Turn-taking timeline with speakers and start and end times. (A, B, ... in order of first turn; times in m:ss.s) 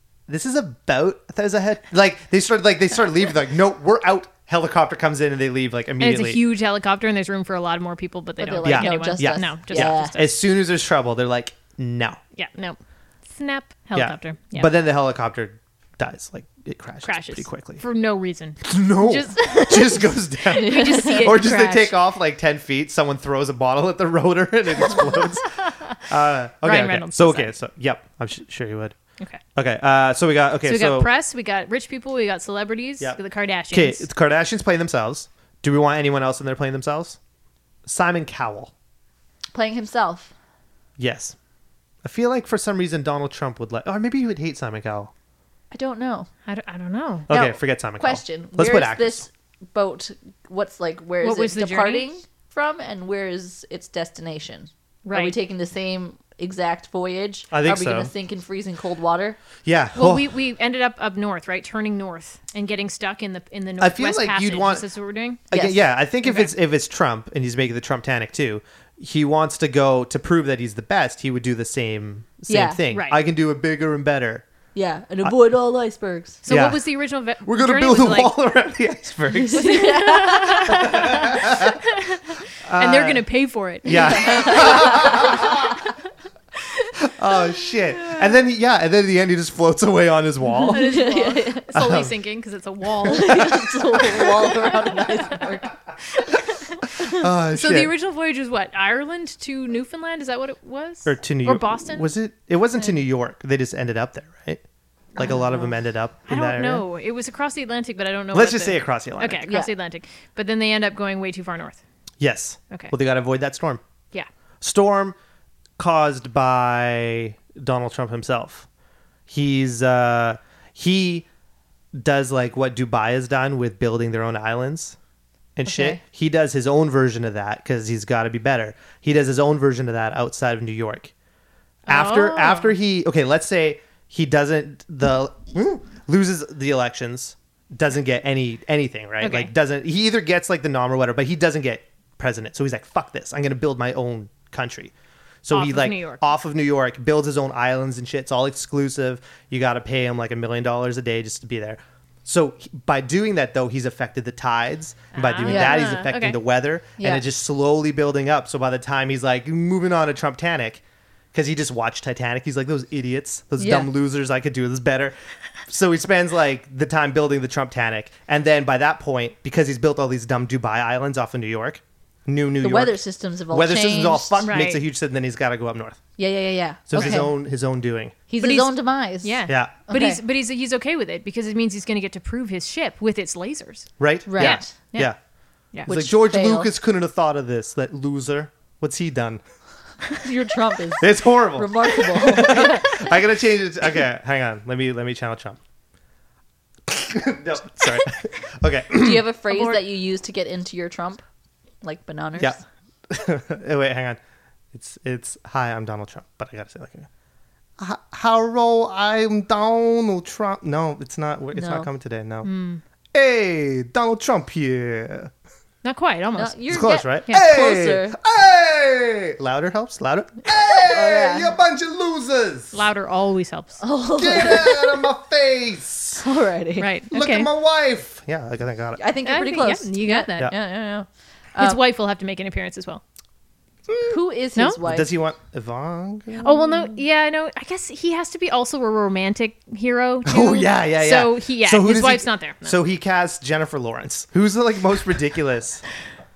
0:00.3-0:06.4 A
0:06.0-0:10.4 B
0:08.4-0:10.2 C
0:08.6-0:12.2 A
0:12.4-0:14.7 B
0:13.9-0:17.8 A
0:17.0-0:21.9 B
0:18.6-0:28.9 A
0:20.5-0:21.4 C
0:24.9-0:25.9 B
0:26.6-0:27.5 B
0:29.5-0:31.1 A
0:30.6-0:34.1 B
0:33.7-0:37.2 A
0:37.8-0:38.7 A
0:39.5-0:40.3 C
0:41.0-0:41.4 A
0:42.0-0:45.1 A
0:45.7-0:46.3 C
0:46.4-0:47.3 B
0:47.3-0:49.2 A
0:47.3-0:59.4 C
0:51.2-0:52.0 B
0:55.0-0:55.3 B
0:57.5-0:58.1 A
0:59.6-1:00.2 A
1:00.0-1:05.4 B
1:03.8-1:04.8 A
1:05.5-1:05.8 C
1:05.5-1:14.4 A
1:06.2-1:06.5 B
1:12.5-1:12.8 C
1:12.9-1:13.2 B
1:14.7-1:16.4 C
1:16.4-1:18.3 B
1:16.5-1:16.8 A
1:17.4-1:19.8 A
1:19.5-1:21.1 C
1:19.5-1:25.5 B
1:20.7-1:21.8 A
1:22.6-1:23.2 A
1:23.8-1:25.8 A
1:24.1-1:25.3 C
1:27.0-1:30.9 A
1:28.0-1:28.4 B
1:30.5-1:35.6 B
1:30.7-1:31.7 C
1:31.7-1:32.1 A
1:33.0-1:35.8 C
1:33.1-1:33.5 A
1:36.1-1:42.1 B
1:36.8-1:37.9 A
1:41.0-1:44.6 A
1:45.2-1:46.8 A
1:45.2-1:45.6 B
1:46.3-1:51.8 B
1:48.3-1:49.4 A
1:49.4-1:49.7 C
1:52.2-1:53.8 A
1:54.6-1:55.1 A
1:55.8-1:58.7 A
1:59.3-2:01.2 A
2:01.9-2:05.0 A
2:05.6-2:11.1 A
2:05.7-2:06.0 C
2:11.8-2:24.9 A
2:11.9-2:12.7 B
2:19.2-2:19.5 B
2:25.4-2:40.8 A
2:25.5-2:26.3 B
2:35.1-2:36.4 B
2:35.4-2:35.9 C
2:37.0-2:37.2 C
2:41.3-2:45.1 A
2:43.6-2:43.9 C
2:45.7-2:56.0 A
2:52.6-2:54.5 C
2:54.4-2:54.8 B
2:56.2-2:57.3 C
2:56.9-2:58.2 A
2:57.0-2:57.2 B
2:58.3-3:00.2 C
2:58.4-3:05.1 B
2:59.5-2:59.7 A
3:04.0-3:05.2 A
3:04.3-3:04.7 C
3:05.8-3:09.4 A
3:05.9-3:06.7 C
3:10.2-3:13.1 C
3:11.0-3:15.6 A
3:16.9-3:19.3 A
3:18.9-3:21.2 C
3:19.5-3:19.8 B
3:21.8-3:22.6 C
3:22.4-3:24.2 A
3:24.7-3:27.1 A
3:27.8-3:32.5 A
3:31.5-3:31.9 C
3:32.4-3:32.8 B
3:33.1-3:35.3 A
3:35.8-3:36.6 B
3:36.3-3:38.2 C
3:36.7-3:42.8 A
3:40.8-3:41.6 C
3:42.7-3:43.8 B
3:43.8-3:45.0 C
3:44.2-3:46.2 A
3:46.2-3:46.9 C
3:46.8-3:47.5 B
3:47.1-3:49.0 A
3:49.0-3:51.8 C
3:49.2-3:50.5 B
3:51.6-3:53.0 B
3:53.9-3:54.2 A
3:54.1-3:55.1 C
3:54.8-3:56.7 A
3:56.4-4:02.8 B
4:00.2-4:05.8 A